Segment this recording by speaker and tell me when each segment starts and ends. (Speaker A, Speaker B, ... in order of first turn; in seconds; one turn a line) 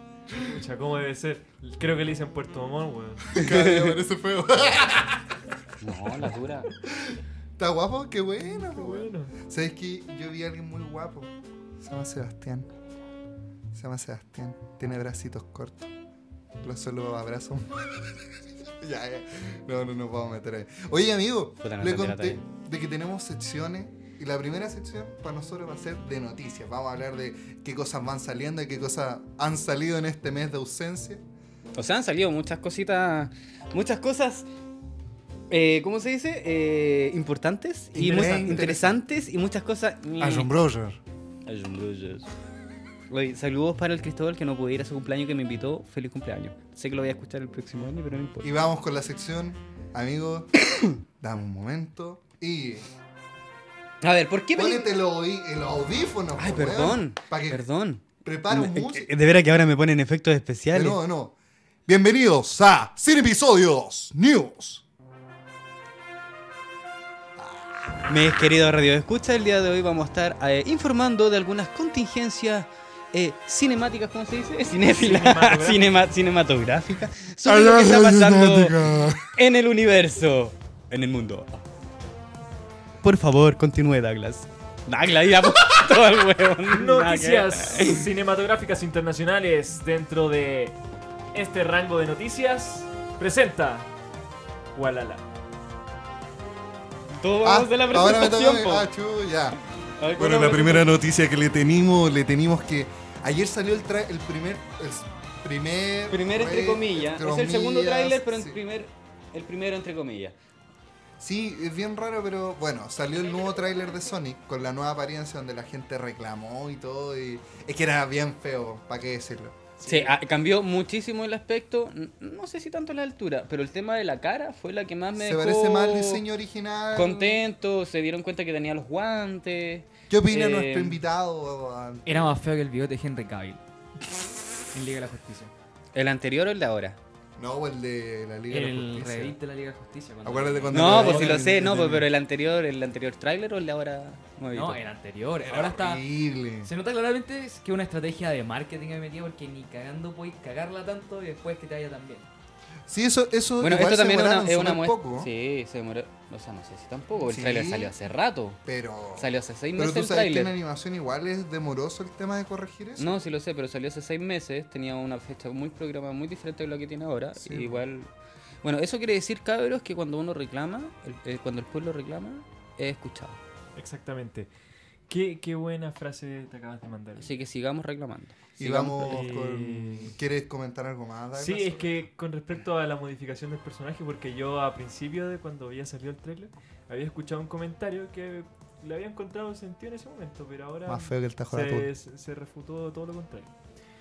Speaker A: 0.3-3.3
Speaker B: 3.3-5.2
Speaker C: 3.4-3.9
Speaker C: 5.8-6.7
Speaker B: 6.9-12.7
Speaker A: 8.5-9.3
Speaker B: 13.7-15.9
Speaker B: 16.6-17.7
Speaker B: 18.8-31.2
Speaker C: 21.6-22.4
Speaker C: 31.8-34.5
Speaker C: 35.5-40.5
Speaker B: 37.9-39.0
Speaker A: 38.1-38.6
Speaker B: 40.2-41.0
Speaker C: 41.5-42.3
Speaker C: 43.1-48.5
Speaker B: 48.4-50.5
Speaker B: 51.2-52.9
Speaker C: 54.0-54.9
Speaker B: 54.5-57.6
Speaker C: 56.4-61.0
Speaker B: 58.2-59.1
Speaker B: 60.7-61.3
Speaker B: 61.9-64.8
Speaker B: 67.4-68.0
Speaker C: 68.1-81.6
Speaker A: 74.9-75.9
Speaker B: 77.4-79.3
Speaker C: 83.0-88.1
Speaker A: 86.7-90.8
Speaker A: 91.3-93.9
Speaker A: 94.7-95.2
Speaker C: 97.2-98.9
Speaker B: 97.4-99.6
Speaker C: 100.0-100.9
Speaker B: 100.2-108.6
Speaker C: 106.1-110.3
Speaker B: 111.2-119.7
Speaker C: 119.8-126.2
Speaker B: 125.2-127.4
Speaker C: 126.9-131.0
Speaker B: 130.1-132.3
Speaker D: 132.1-133.6
Speaker D: 134.7-135.5
Speaker C: 135.9-137.0
Speaker B: 137.4-139.3
Speaker D: 138.5-141.6
Speaker B: 140.2-142.1
Speaker C: 140.7-144.8
Speaker D: 144.5-146.0
Speaker B: 145.4-146.7
Speaker D: 146.6-152.3
Speaker B: 152.9-155.3
Speaker C: 153.6-158.6
Speaker B: 157.3-157.9
Speaker B: 158.6-163.2
Speaker C: 159.2-160.5
Speaker C: 163.0-168.1
Speaker B: 167.4-167.8
Speaker C: 168.6-173.4
Speaker A: 173.7-174.5
Speaker A: 175.1-177.3
Speaker C: 177.2-179.3
Speaker B: 178.6-182.0
Speaker A: 179.1-180.1
Speaker A: 181.3-193.5
Speaker B: 190.8-191.9